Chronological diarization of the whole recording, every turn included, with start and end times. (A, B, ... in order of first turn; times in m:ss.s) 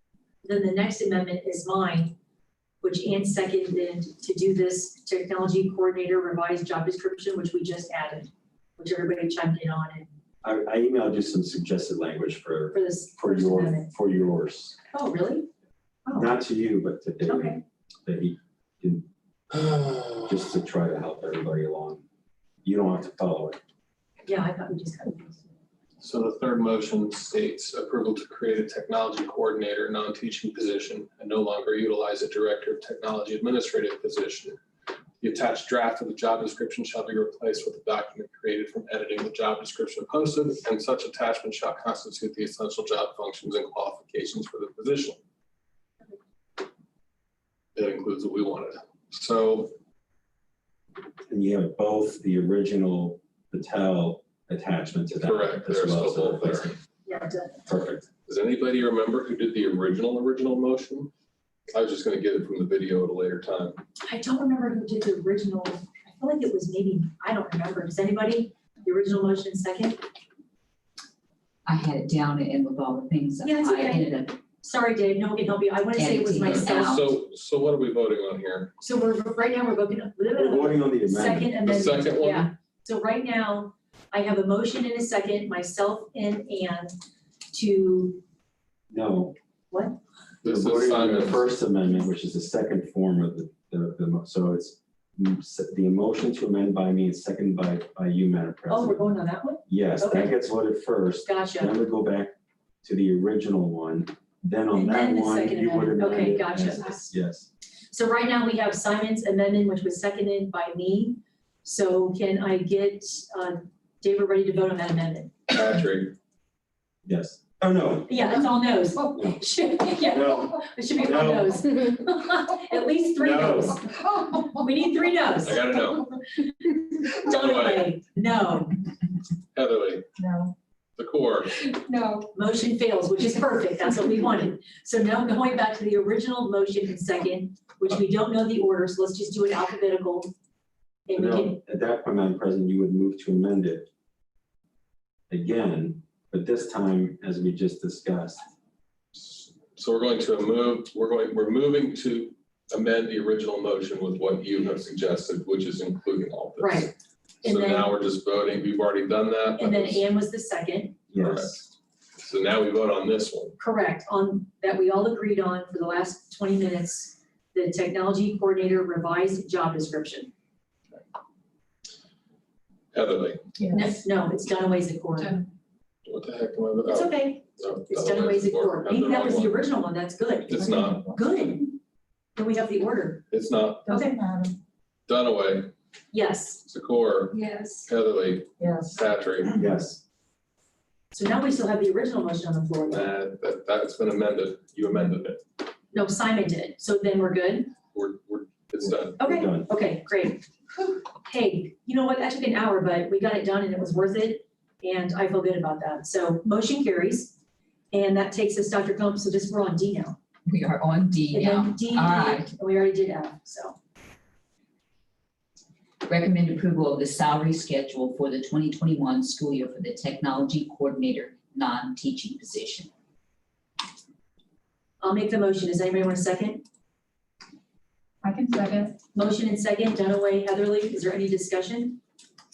0:00.4-0:02.2 A
0:02.8-0:10.1 A
0:10.4-0:14.8 B
0:12.7-0:13.9 A
0:14.9-0:15.5 A
0:16.0-0:16.3 A
0:16.1-0:19.1 B
0:17.2-0:17.6 A
0:19.5-0:20.4 C
0:20.3-0:22.0 B
0:22.6-0:23.6 B
0:24.2-0:25.4 A
0:26.0-0:34.6 C
0:35.2-0:45.2 C
0:47.7-0:49.7 C
0:51.3-0:56.8 B
0:55.2-0:56.8 C
0:57.0-0:57.6 A
0:57.7-0:58.0 B
0:57.9-1:01.1 C
1:01.7-1:03.8 C
1:04.0-1:10.0 A
1:11.6-1:14.4 D
1:13.4-1:17.0 A
1:15.9-1:17.0 D
1:16.4-1:18.8 C
1:18.8-1:27.0 A
1:20.3-1:21.6 B
1:21.6-1:22.5 C
1:27.5-1:28.2 A
1:28.9-1:29.4 B
1:29.7-1:30.0 A
1:30.4-1:31.6 C
1:30.4-1:39.1 B
1:38.7-1:40.3 A
1:39.7-1:47.5 B
1:41.2-1:41.7 A
1:44.7-1:47.1 A
1:47.9-1:55.5 A
1:55.5-1:56.2 C
1:57.0-1:58.3 B
1:58.1-2:05.6 A
1:59.1-1:59.4 B
2:00.0-2:01.6 B
2:03.2-2:03.6 C
2:03.2-2:03.8 B
2:05.4-2:06.4 C
2:06.6-2:08.8 A
2:07.1-2:07.9 C
2:09.5-2:10.2 C
2:10.2-2:10.5 E
2:11.0-2:11.7 C
2:11.7-2:12.3 E
2:12.3-2:20.3 A
2:21.1-2:21.6 A
2:21.1-2:23.9 B
2:25.3-2:28.4 B
2:29.2-2:40.0 C
2:36.6-2:36.9 A
2:37.4-2:37.9 A
2:39.5-2:41.1 A
2:41.1-2:41.6 B
2:41.2-2:41.6 C
2:42.2-2:43.6 C
2:43.6-2:50.3 A
2:52.9-2:53.6 C
2:53.6-2:54.0 E
2:53.7-2:55.4 A
2:55.2-2:55.5 E
2:56.0-2:59.6 C
2:56.8-3:01.8 A
3:00.5-3:01.0 C
3:00.6-3:01.2 E
3:02.4-3:03.2 A
3:03.3-3:04.0 C
3:03.9-3:04.6 E
3:03.9-3:04.2 A
3:05.1-3:05.7 C
3:06.1-3:06.6 A
3:06.6-3:09.6 C
3:07.3-3:07.9 E
3:08.6-3:09.0 E
3:09.5-3:10.0 B
3:11.1-3:13.1 A
3:12.9-3:15.4 C
3:15.9-3:17.7 A
3:17.8-3:19.2 C
3:18.8-3:19.7 B
3:19.2-3:20.4 A
3:21.2-3:27.4 A
3:27.9-3:30.2 A
3:30.4-3:32.5 D
3:31.3-3:33.7 A
3:36.0-3:42.9 D
3:45.0-3:46.6 A
3:48.2-3:49.0 E
3:49.1-3:52.0 A